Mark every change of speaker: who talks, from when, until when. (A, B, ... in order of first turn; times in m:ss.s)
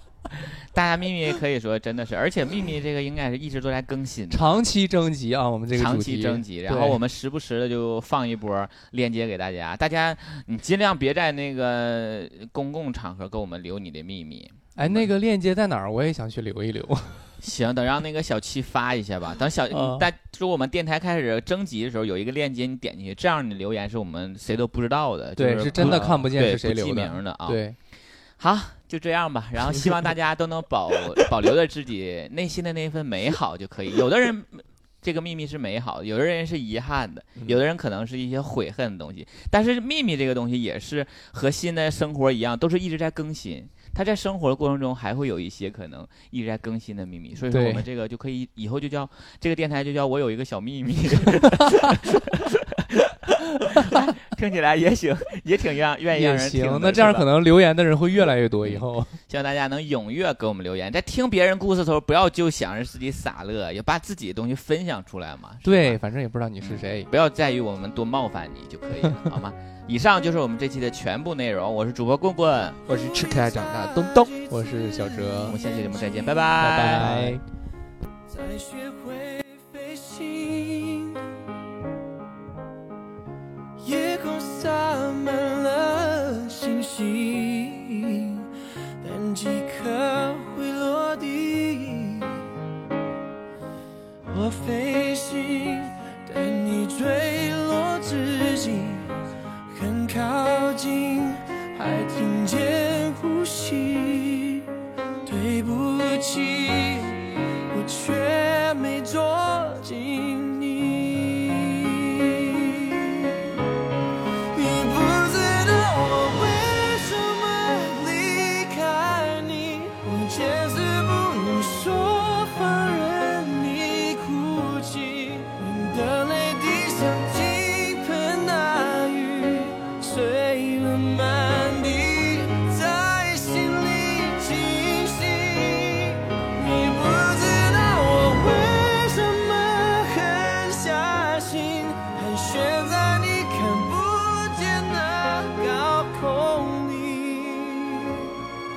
0:00.7-0:04.6 A
0:04.3-0:07.0 B
0:05.7-0:15.1 A
0:14.8-0:17.3 B
0:17.4-0:52.3 A
0:19.7-0:20.1 B
0:25.4-0:27.8 B
0:25.8-0:26.2 C
0:47.5-0:47.8 B
0:53.7-0:57.3 A
0:56.1-0:59.2 B
0:58.6-1:06.0 A
1:05.6-1:07.1 B
1:06.6-1:12.8 A
1:12.9-1:14.4 C
1:13.1-1:16.5 D
1:14.5-1:15.6 B
1:15.5-1:17.3 A
1:16.6-1:17.4 B
1:17.0-1:17.3 C
1:18.3-1:21.2 D
1:23.8-1:28.4 D
1:29.0-1:32.4 D
1:34.3-1:39.1 D
1:39.7-1:44.7 D
1:45.2-1:53.4 D
1:54.5-2:28.2 D